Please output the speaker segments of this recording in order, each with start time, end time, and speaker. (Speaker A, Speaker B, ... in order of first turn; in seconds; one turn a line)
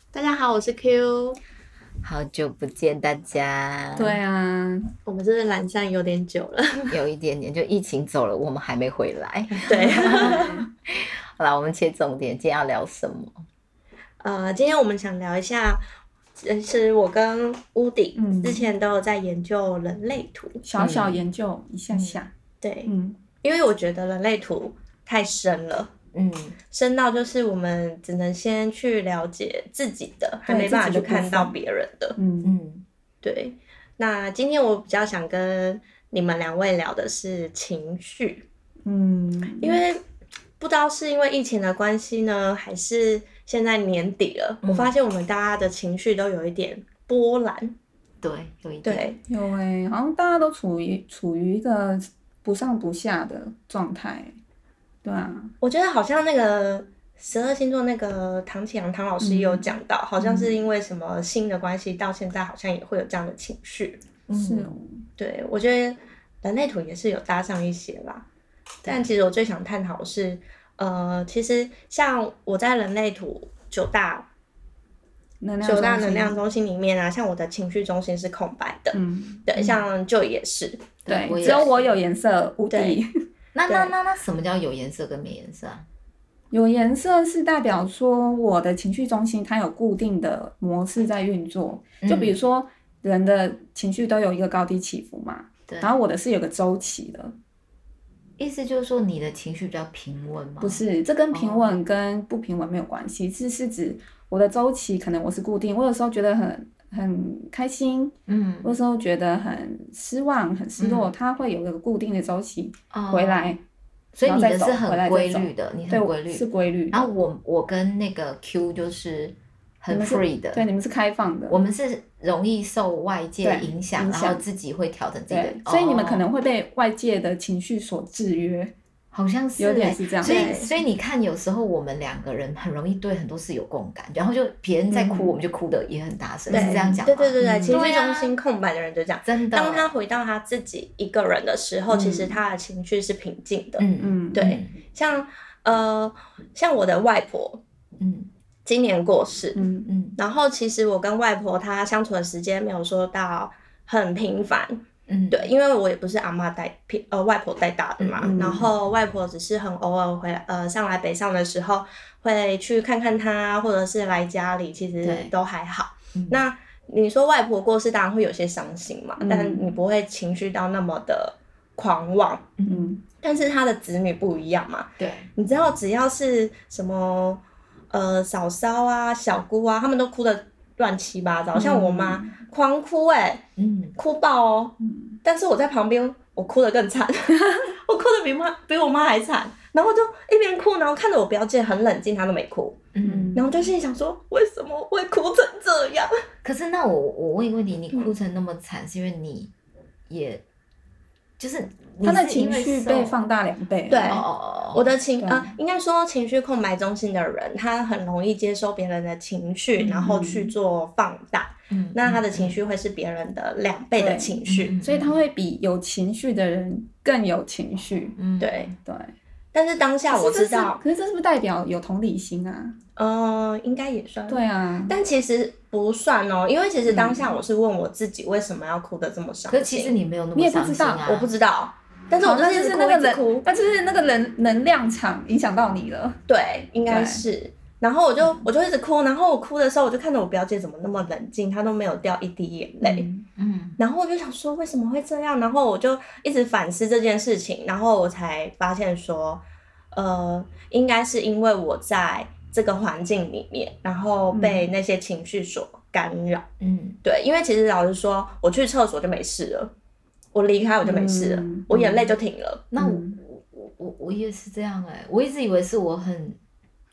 Speaker A: 0.1-1.4
Speaker B: 2.0-4.2
Speaker C: 4.0-4.9
Speaker A: 5.0-7.0
Speaker B: 6.9-13.4
Speaker A: 9.7-10.6
Speaker C: 9.8-10.4
Speaker A: 14.2-15.8
Speaker A: 16.4-20.6
Speaker C: 18.2-18.7
Speaker C: 20.6-22.3
Speaker B: 20.8-21.2
Speaker B: 21.9-22.2
Speaker A: 22.6-22.9
Speaker C: 22.9-23.2
Speaker A: 23.4-25.9
Speaker B: 26.1-26.6
Speaker A: 26.7-32.2
Speaker C: 30.5-31.6
Speaker C: 32.2-32.5
Speaker B: 32.4-32.8
Speaker A: 33.2-38.5
Speaker C: 38.9-39.8
Speaker A: 39.6-40.0
Speaker A: 40.6-47.7
Speaker B: 44.6-44.9
Speaker B: 48.2-49.1
Speaker A: 48.8-49.2
Speaker C: 49.3-54.3
Speaker C: 55.0-55.5
Speaker A: 55.6-64.0
Speaker C: 59.2-59.7
Speaker B: 64.3-64.8
Speaker C: 64.3-65.0
Speaker A: 65.2-68.2
Speaker A: 68.8-74.3
Speaker C: 75.4-76.4
Speaker A: 75.6-81.6
Speaker C: 78.9-79.4
Speaker B: 79.6-79.8
Speaker C: 81.1-83.1
Speaker B: 81.1-82.0
Speaker A: 82.7-83.0
Speaker B: 83.5-85.9
Speaker A: 83.7-83.9
Speaker C: 86.5-97.3
Speaker B: 92.0-92.4
Speaker B: 95.7-95.9
Speaker B: 98.4-101.8
Speaker C: 100.6-113.6
Speaker B: 108.3-108.8
Speaker B: 110.8-111.1
Speaker B: 112.9-113.6
Speaker B: 114.1-120.7
Speaker C: 114.2-117.1
Speaker C: 119.9-121.6
Speaker B: 121.5-126.2
Speaker C: 123.4-124.4
Speaker C: 125.3-128.7
Speaker B: 129.1-138.3
Speaker C: 129.6-130.7
Speaker A: 130.2-130.7
Speaker C: 134.9-135.3
Speaker C: 136.5-137.0
Speaker A: 136.5-147.6
Speaker B: 139.2-139.9
Speaker B: 141.9-142.4
Speaker B: 143.8-144.7
Speaker C: 144.0-144.6
Speaker B: 148.0-148.3
Speaker A: 148.7-149.6
Speaker C: 149.5-149.9
Speaker B: 149.9-150.2
Speaker A: 150.2-172.5
Speaker B: 155.1-155.5
Speaker B: 158.0-158.7
Speaker C: 158.2-158.7
Speaker B: 165.0-165.3
Speaker B: 166.1-166.4
Speaker C: 169.2-169.8
Speaker B: 172.6-172.9
Speaker C: 172.7-173.0
Speaker A: 173.2-183.4
Speaker B: 175.0-175.3
Speaker C: 181.5-182.3
Speaker B: 183.6-183.9
Speaker A: 183.9-196.1
Speaker C: 184.8-185.2
Speaker B: 192.9-193.3
Speaker C: 193.0-193.5
Speaker B: 196.4-199.5
Speaker B: 200.1-200.4
Speaker B: 201.4-203.2
Speaker C: 202.0-204.2
Speaker A: 203.9-214.7
Speaker B: 204.1-204.8
Speaker C: 205.2-205.5
Speaker B: 209.8-210.2
Speaker C: 210.0-210.5
Speaker B: 211.7-212.6
Speaker C: 214.0-218.2
Speaker B: 214.4-215.2
Speaker B: 218.2-218.7
Speaker A: 218.4-218.7
Speaker C: 218.8-219.1
Speaker A: 219.5-220.8
Speaker C: 220.1-222.8
Speaker A: 222.9-229.9
Speaker C: 224.3-224.9
Speaker B: 226.9-227.3
Speaker B: 229.5-231.3
Speaker C: 230.3-231.1
Speaker A: 231.0-233.4
Speaker C: 232.2-236.2
Speaker A: 236.3-243.1
Speaker C: 236.8-237.2
Speaker B: 242.8-243.8
Speaker C: 242.9-243.2
Speaker A: 243.8-256.4
Speaker C: 254.3-254.7
Speaker B: 256.6-257.0
Speaker A: 257.0-259.7
Speaker A: 260.3-262.7
Speaker C: 260.8-262.1
Speaker B: 262.7-266.4
Speaker C: 262.8-263.2